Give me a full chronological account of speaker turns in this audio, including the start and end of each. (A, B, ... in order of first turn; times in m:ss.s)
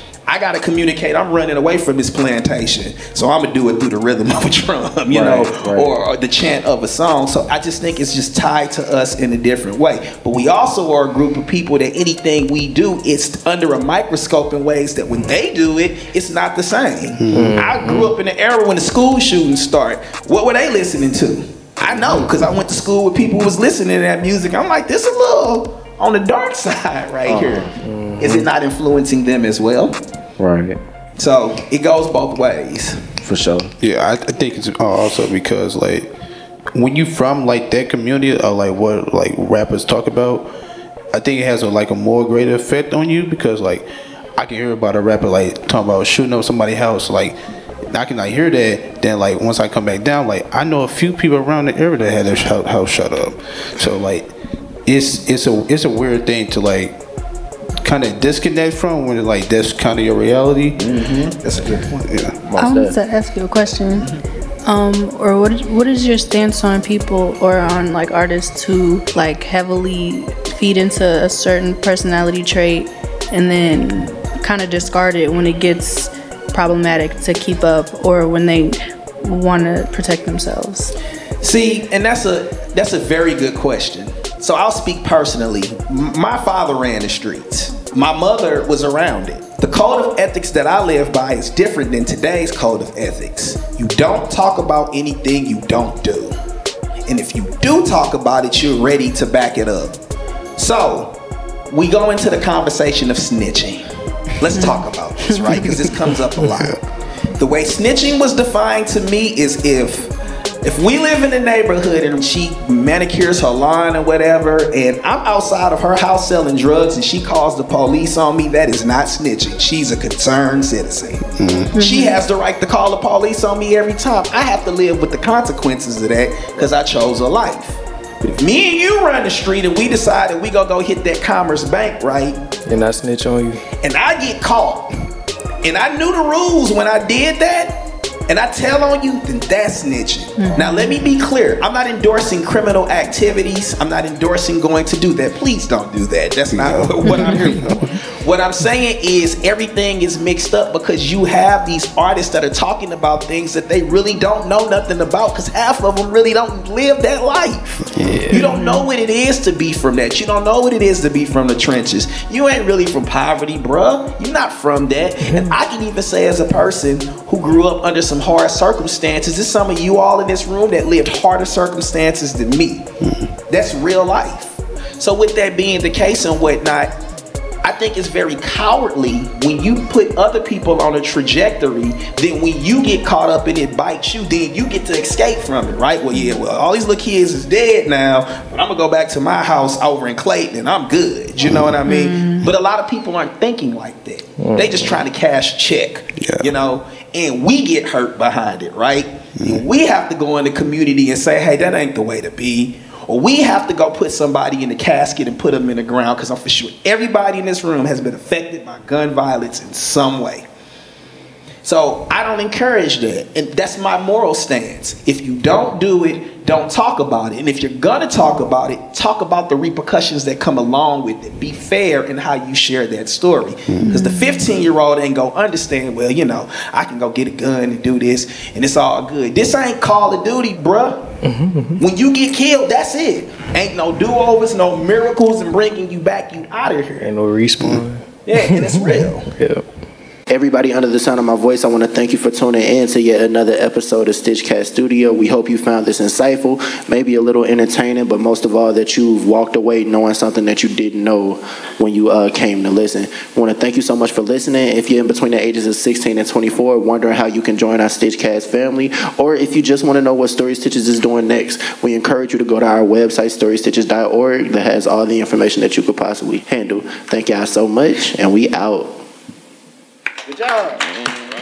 0:00.3-0:30.0 A
0:05.1-0:05.9 B
0:17.1-0:17.6 C
0:17.3-0:18.1 D
0:27.2-0:27.7 B
0:27.8-0:28.5 D
0:30.4-0:30.8 B
0:31.2-0:33.1 A
0:33.2-0:33.7 B
0:33.8-0:36.1 C
0:36.7-0:40.5 C
0:41.1-0:47.4 C
0:47.9-0:54.3 C
0:54.9-0:57.0 C
0:57.8-1:00.8 C
1:00.8-1:02.1 A
1:02.0-1:02.4 C
1:02.4-1:03.0 B
1:02.6-1:04.1 E
1:04.6-1:21.0 E
1:21.4-1:36.4 A
1:37.1-1:40.0 A
1:40.6-1:41.2 A
1:41.7-1:43.9 A
1:44.4-1:46.8 A
1:44.5-1:45.9 E
1:47.4-1:50.1 A
1:50.6-2:12.4 A
2:01.4-2:01.8 C
2:01.8-2:02.2 E
2:12.7-2:13.6 D
2:13.8-2:14.9 A
2:15.6-2:52.9 A
2:20.4-2:20.9 E
2:26.5-2:27.9 C
2:37.9-2:38.3 C
2:38.0-2:38.4 D
2:38.3-2:38.9 E
2:45.2-2:45.5 D
2:53.0-2:53.3 C
2:53.5-2:56.9 A
2:57.6-3:30.5 A
3:11.5-3:11.7 C
3:11.9-3:12.5 E
3:14.4-3:15.0 D
3:16.2-3:16.5 C
3:31.6-3:51.1 A
3:43.8-3:44.4 E
3:51.2-3:51.8 D
3:51.8-3:57.1 A
3:57.0-3:59.7 D
3:58.3-3:59.3 A
4:00.3-4:29.0 B